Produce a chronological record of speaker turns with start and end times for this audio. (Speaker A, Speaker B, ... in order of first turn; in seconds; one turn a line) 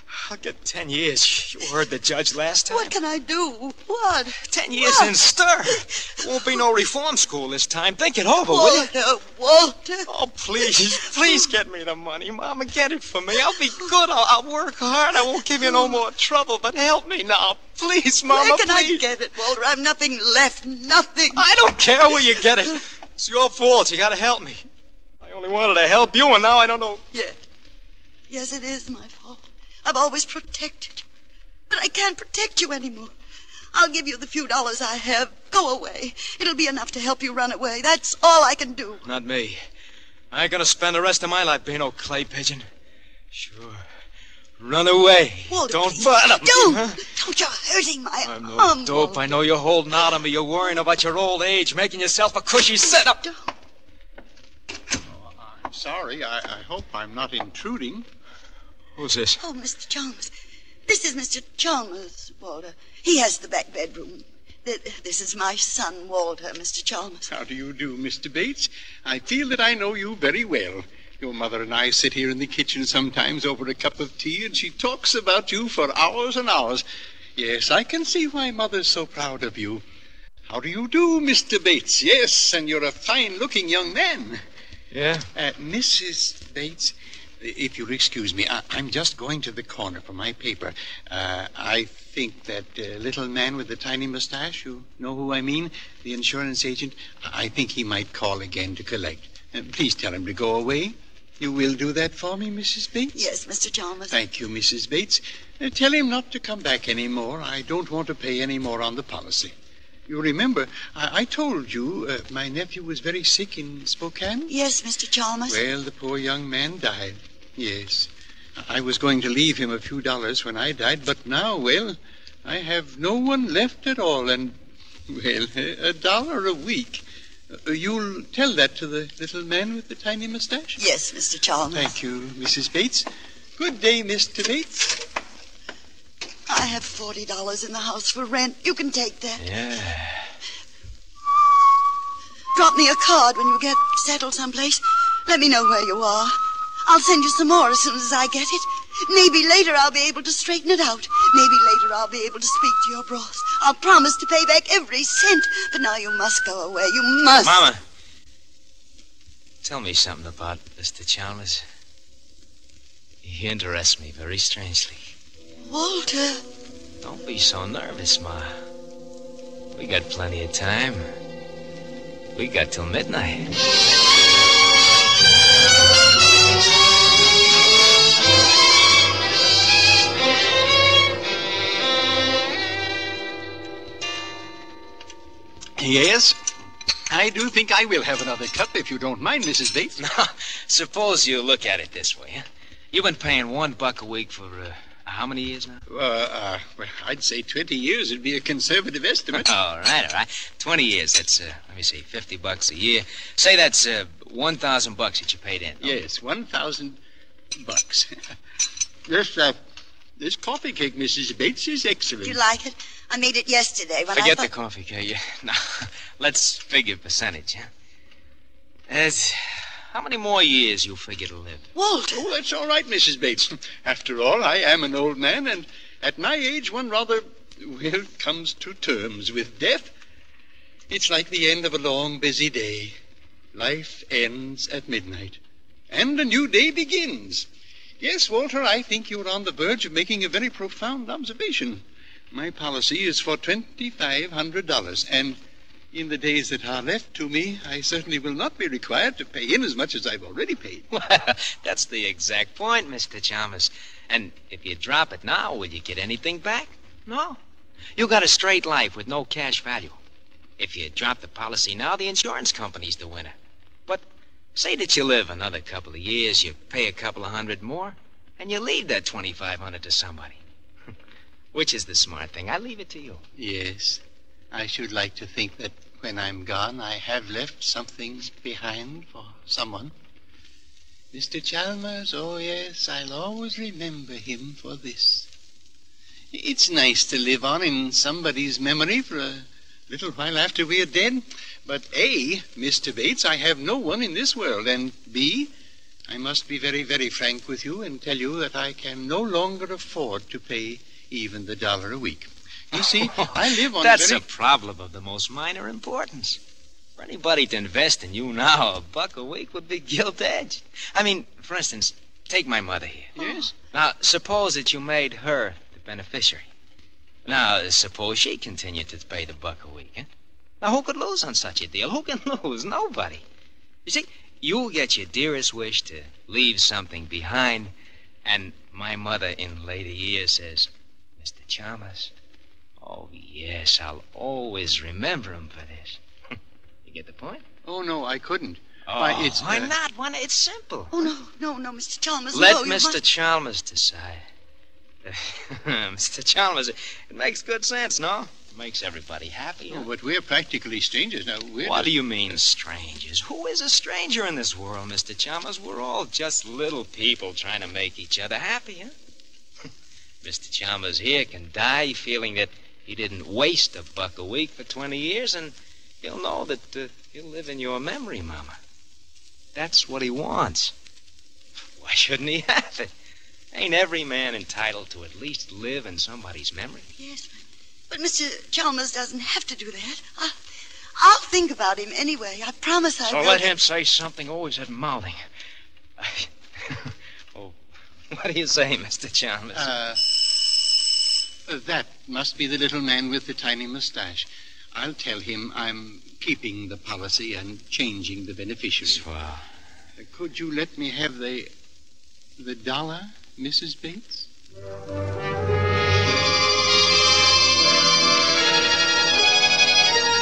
Speaker A: 0.1-2.9
Speaker B: 2.7-5.1
Speaker A: 4.5-8.9
Speaker B: 8.5-10.1
Speaker A: 10.1-19.1
Speaker B: 10.6-11.5
Speaker B: 15.4-16.0
Speaker B: 18.3-21.5
Speaker A: 21.3-24.7
Speaker A: 25.2-27.0
Speaker B: 27.1-27.4
Speaker B: 28.3-31.1
Speaker B: 31.7-33.1
Speaker B: 33.7-39.0
Speaker A: 39.0-39.6
Speaker A: 40.3-42.7
Speaker A: 43.3-43.9
Speaker A: 44.6-47.0
Speaker B: 45.5-49.3
Speaker A: 48.2-53.2
Speaker B: 53.1-53.5
Speaker C: 55.1-58.1
Speaker A: 59.0-59.4
Speaker B: 59.4-60.3
Speaker B: 60.9-67.3
Speaker C: 67.3-76.8
Speaker C: 77.4-79.8
Speaker C: 80.5-84.4
Speaker A: 84.9-85.3
Speaker C: 85.3-103.3
Speaker B: 103.2-104.2
Speaker C: 104.1-109.5
Speaker C: 110.1-114.5
Speaker B: 114.5-115.6
Speaker C: 115.5-124.6
Speaker C: 125.1-130.8
Speaker B: 130.8-131.9
Speaker C: 131.7-135.0
Speaker B: 136.5-139.4
Speaker A: 139.4-140.3
Speaker B: 142.5-157.7
Speaker A: 157.4-157.8
Speaker A: 159.6-161.7
Speaker A: 163.2-165.1
Speaker B: 165.6-166.4
Speaker A: 167.0-168.6
Speaker A: 169.7-171.1
Speaker A: 172.3-173.6
Speaker C: 185.8-186.4
Speaker C: 187.1-190.0
Speaker A: 190.0-195.8
Speaker C: 195.9-199.5
Speaker A: 199.3-206.0
Speaker C: 205.8-207.0
Speaker C: 207.6-208.2
Speaker C: 209.1-209.6
Speaker C: 210.2-212.4
Speaker B: 212.2-214.5
Speaker A: 214.1-217.7
Speaker A: 218.9-221.7
Speaker B: 221.8-222.3
Speaker C: 222.1-229.9
Speaker C: 230.9-233.0
Speaker C: 233.5-237.5
Speaker C: 238.0-245.4
Speaker C: 245.9-250.9
Speaker A: 250.9-257.4
Speaker A: 258.0-260.0
Speaker A: 260.6-263.4
Speaker A: 263.9-270.4
Speaker A: 271.5-273.2
Speaker C: 273.4-279.9
Speaker C: 281.1-285.3
Speaker C: 286.3-295.5
Speaker C: 296.1-304.2
Speaker A: 303.0-306.4
Speaker A: 307.0-316.5
Speaker B: 313.2-313.5
Speaker C: 313.2-313.5
Speaker A: 317.2-320.1
Speaker A: 320.6-323.2
Speaker A: 323.9-327.7
Speaker A: 328.2-332.1
Speaker A: 332.8-336.0
Speaker A: 336.9-337.4
Speaker C: 337.6-339.8
Speaker A: 338.9-341.1
Speaker B: 340.9-343.0
Speaker A: 342.3-344.3
Speaker A: 345.0-349.9
Speaker C: 349.7-352.0
Speaker A: 351.6-358.9
Speaker A: 360.2-368.6
Speaker A: 369.6-370.7
Speaker A: 371.8-372.9
Speaker A: 373.5-376.9
Speaker B: 377.0-380.4
Speaker B: 381.0-383.5
Speaker A: 383.1-385.2
Speaker A: 386.0-387.6
Speaker A: 388.1-389.7
Speaker C: 389.6-390.4
Speaker C: 391.5-399.1
Speaker A: 398.9-399.4
Speaker C: 400.0-401.5
Speaker C: 402.4-404.3